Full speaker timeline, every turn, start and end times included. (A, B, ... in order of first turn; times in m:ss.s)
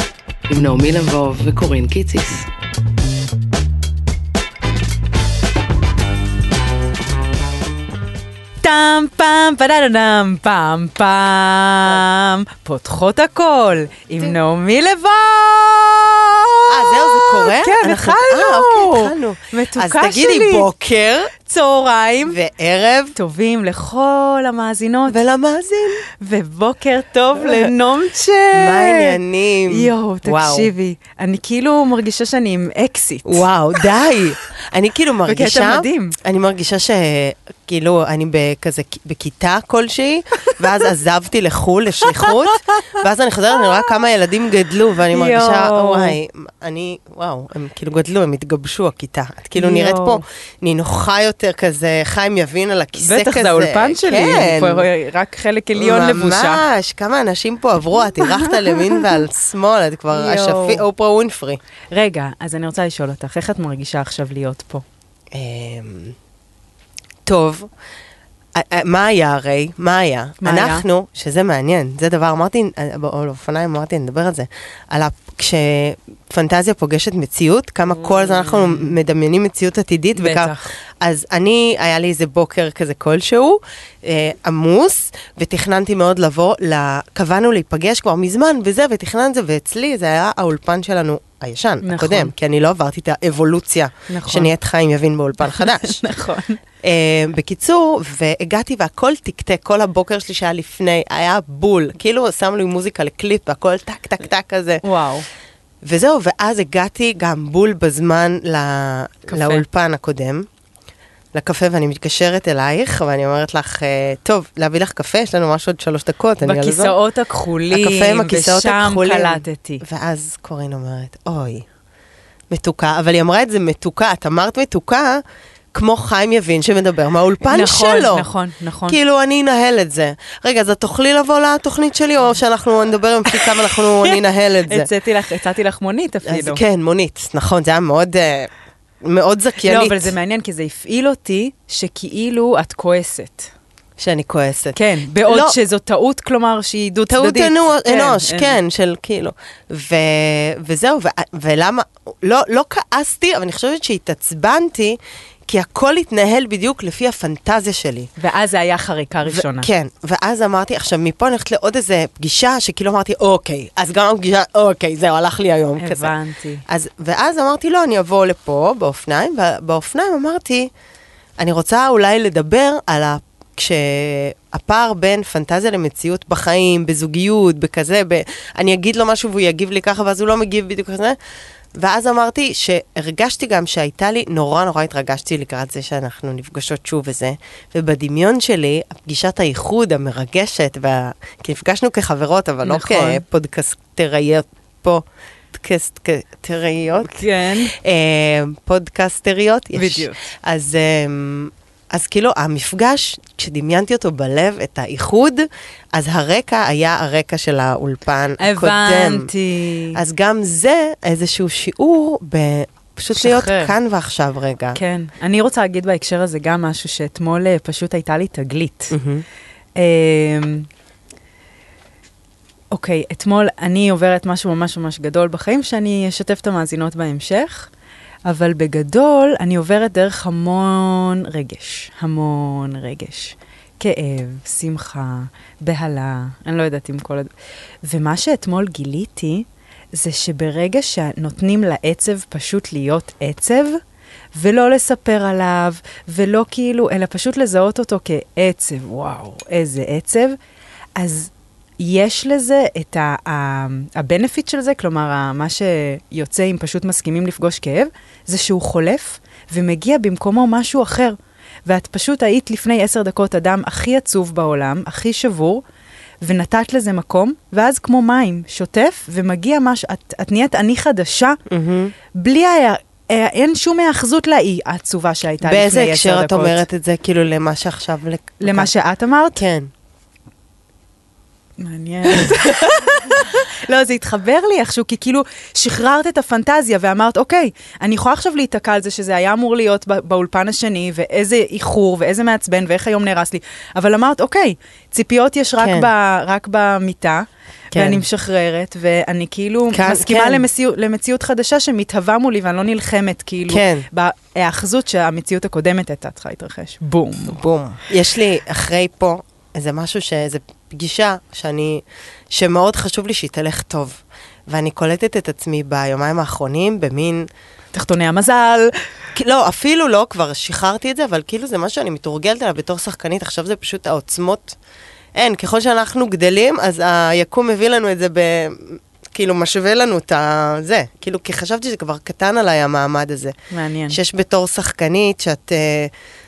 0:00.5-0:02.5 A
0:08.6-0:20.7 B
0:16.7-0:21.3 C
0:21.4-0:22.4 B
0:22.2-0:23.2 C
0:23.2-0:25.2 B
0:25.1-0:26.0 C
0:26.1-0:29.2 B
0:27.4-0:27.7 C
0:28.6-0:30.7 C
0:29.7-0:33.5 B
0:33.2-0:54.9 C
0:35.2-0:36.2 B
0:45.1-0:46.2 B
0:49.6-0:50.2 B
0:53.0-0:56.6 B
0:55.8-1:01.6 C
0:58.2-0:59.0 B
1:00.1-1:00.8 B
1:01.9-1:04.8 B
1:05.3-1:06.2 C
1:07.3-1:07.7 C
1:08.6-1:36.0 C
1:10.4-1:10.8 B
1:18.0-1:18.9 B
1:20.2-1:20.7 B
1:31.8-1:32.3 B
1:34.1-1:34.5 B
1:35.4-1:36.6 B
1:36.8-1:44.8 C
1:44.8-1:45.3 B
1:45.8-1:50.5 C
1:49.3-1:49.6 B
1:51.3-1:56.9 C
1:56.4-1:59.8 B
1:57.7-2:01.7 C
2:02.5-2:08.3 C
2:07.4-2:09.0 B
2:08.9-2:14.9 C
2:13.5-2:14.1 B
2:14.7-2:16.6 B
2:16.3-2:18.5 C
2:19.0-2:20.1 C
2:19.6-2:23.5 B
2:24.0-2:25.6 C
2:24.8-2:28.6 B
2:27.1-2:38.1 C
2:38.2-2:39.7 B
2:39.2-2:46.1 C
2:45.8-2:46.6 B
2:46.7-2:50.7 C
2:51.4-3:01.2 C
3:01.8-3:29.3 C
3:12.6-3:13.2 B
3:17.0-3:17.7 B
3:19.8-3:20.2 B
3:28.4-3:30.0 B
3:29.9-3:34.8 C
3:33.2-3:33.7 B
3:34.8-3:38.9 B
3:38.9-3:39.2 C
3:39.8-3:40.7 B
3:42.7-3:47.7 B
3:48.3-3:57.3 B
3:57.8-4:03.8 B
4:04.3-4:10.4 B
4:11.0-4:25.6 B
4:26.2-4:31.4 B
4:31.5-4:32.0 C
4:32.1-4:36.6 B
4:35.4-4:38.7 C
4:38.4-4:39.4 B
4:39.4-4:39.7 C
4:41.6-5:07.4 B
4:55.6-4:55.9 C
4:57.7-4:58.0 C
4:59.7-5:00.5 C
5:03.5-5:03.9 C
5:07.3-5:17.3 C
5:17.7-5:18.7 B
5:19.2-5:24.6 C
5:25.2-5:33.3 C
5:33.5-5:34.0 B
5:33.9-5:35.9 C